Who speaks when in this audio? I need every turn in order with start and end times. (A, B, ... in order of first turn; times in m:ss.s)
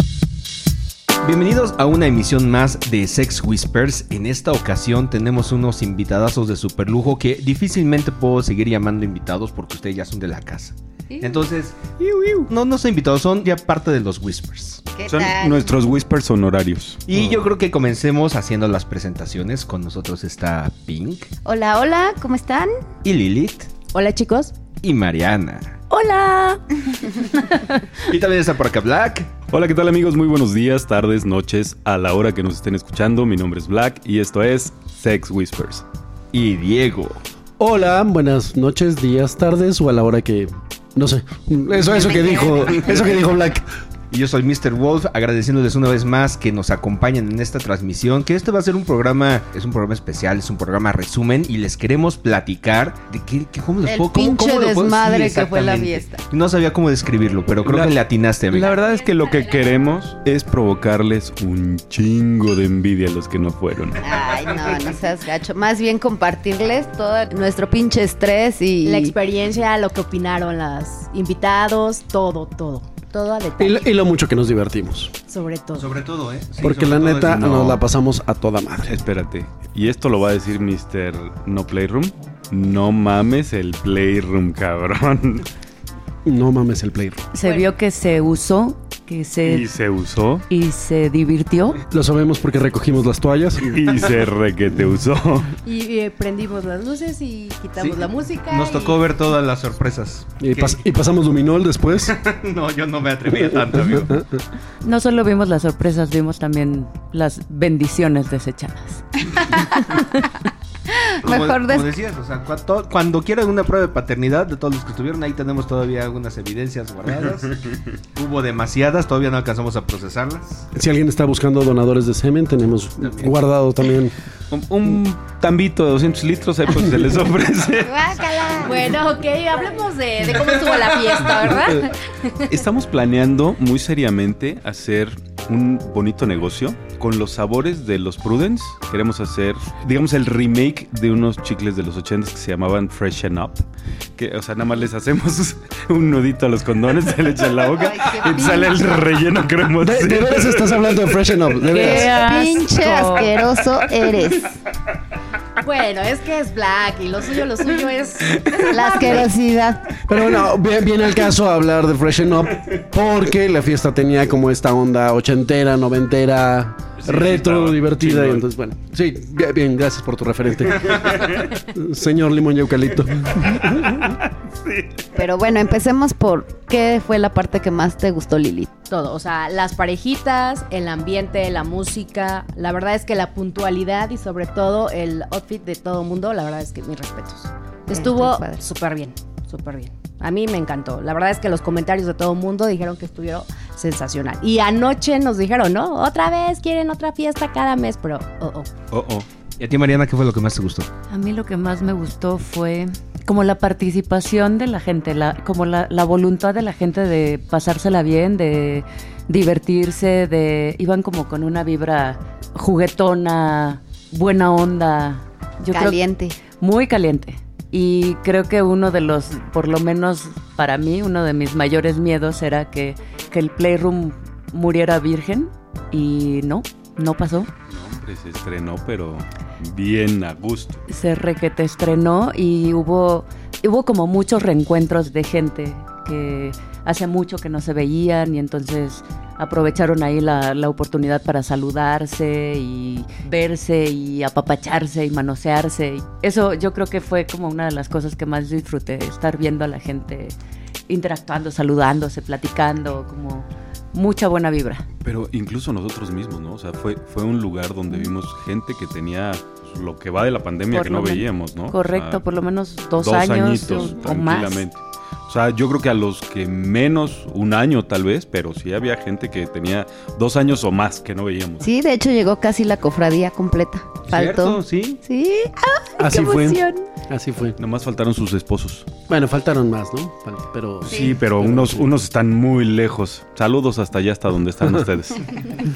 0:01.2-0:14.8 A
0:11.1-0:11.4 B
0:14.9-0:15.7 B
0:15.1-0:17.0 C
0:17.1-0:21.3 A
0:21.4-0:22.7 B
0:23.0-0:23.7 A
0:23.9-0:24.6 D
0:24.8-0:25.8 A
0:25.9-0:26.6 D
0:28.0-0:29.3 A
0:29.5-0:35.8 C
0:36.3-0:37.2 A
0:37.6-0:43.6 E
0:44.1-0:58.8 A
0:53.8-0:56.2 B
0:57.6-1:04.1 C
1:04.0-1:09.1 B
1:08.8-1:13.9 D
1:13.6-1:15.2 E
1:15.3-1:15.9 D
1:15.8-1:17.6 A
1:16.6-1:19.0 E
1:17.2-1:17.8 C
1:18.9-1:25.5 C
1:26.2-1:27.2 E
1:27.3-1:29.7 F
1:29.4-1:30.4 C
1:30.5-1:31.8 F
1:31.9-1:33.9 E
1:33.6-1:35.5 C
1:35.6-1:39.0 D
1:37.8-1:40.8 A
1:40.4-1:42.2 E
1:42.0-1:44.2 A
1:43.4-1:44.4 E
1:44.8-1:50.3 F
1:50.9-1:51.9 B
1:51.2-1:57.6 A
1:58.1-2:00.7 A
2:00.8-2:04.1 E
2:03.0-2:03.4 A
2:04.5-2:08.1 C
2:07.8-2:08.8 B
2:08.4-2:12.4 D
2:12.4-2:23.6 C
2:24.2-2:31.1 C
2:27.7-2:29.1 B
2:29.8-2:32.2 E
2:31.6-2:33.3 F
2:31.7-2:34.6 B
2:35.6-2:39.3 D
2:38.7-2:40.0 B
2:40.1-2:54.1 E
2:47.0-2:48.4 C
2:53.5-2:54.9 C
2:55.2-2:58.7 B
2:58.9-3:18.7 D
3:07.9-3:08.6 B
3:18.9-3:20.9 A
3:21.1-3:47.5 F
3:35.7-3:36.4 B
3:47.7-3:50.8 C
3:50.9-4:10.3 F
4:10.9-4:14.8 F
4:15.0-4:22.2 C
4:20.7-4:24.6 F
4:23.0-4:31.7 C
4:31.6-4:36.9 B
4:34.1-4:35.0 A
4:36.0-4:37.6 E
4:37.6-4:38.9 C
4:39.1-4:41.9 E
4:40.8-4:45.5 C
4:40.9-4:41.2 B